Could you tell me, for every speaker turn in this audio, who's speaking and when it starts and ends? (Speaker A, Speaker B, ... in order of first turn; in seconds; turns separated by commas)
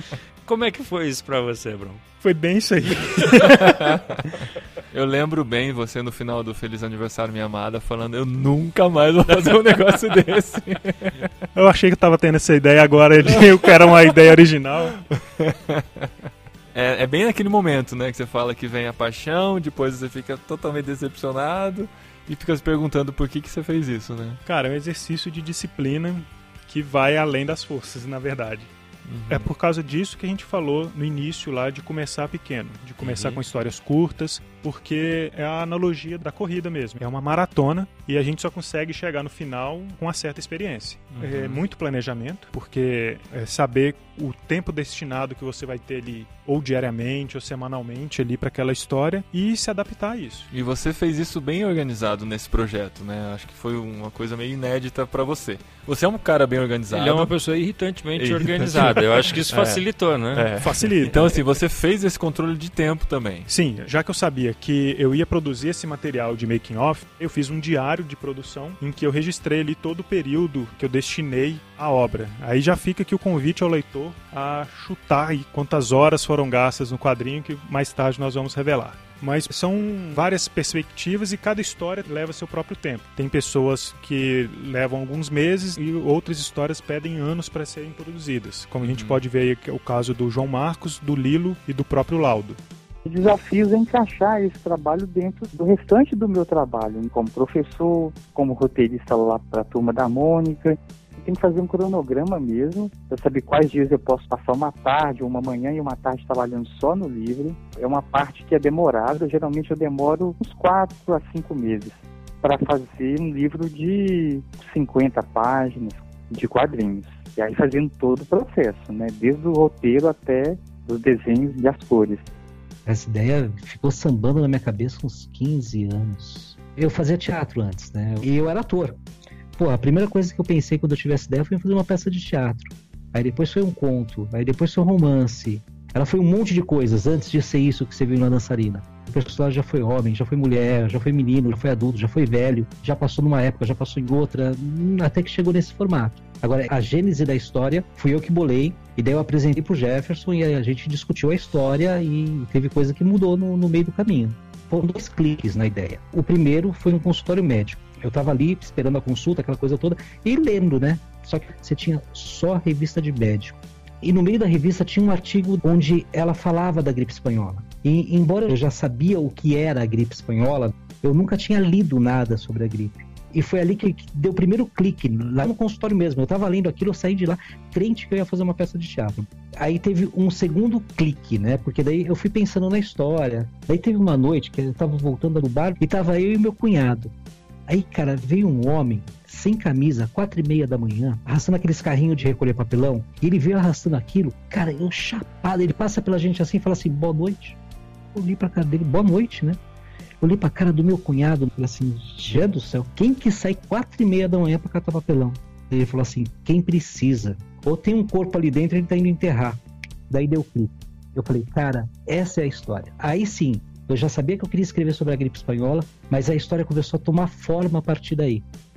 Speaker A: 0.4-2.0, Speaker B: 2.2-3.8, Speaker A: 3.2-3.5, Speaker C: 4.9-11.2, Speaker A: 9.3-9.7, Speaker B: 11.5-15.0, Speaker C: 13.2-14.2, Speaker C: 15.4-16.1, Speaker C: 16.7-24.4, Speaker B: 24.4-28.7, Speaker C: 29.1-29.5, Speaker B: 29.3-50.5, Speaker A: 33.0-33.4, Speaker C: 41.1-41.6, Speaker C: 50.5-57.3, Speaker A: 56.9-60.5, Speaker C: 58.1-63.5, Speaker B: 60.6-61.5, Speaker B: 63.5-92.6, Speaker C: 88.8-89.2, Speaker D: 93.0-122.3, Speaker E: 122.9-129.0, Speaker E: 129.6-187.1, Speaker E: 187.7-197.6, Speaker E: 198.2-199.6, Speaker E: 200.2-218.4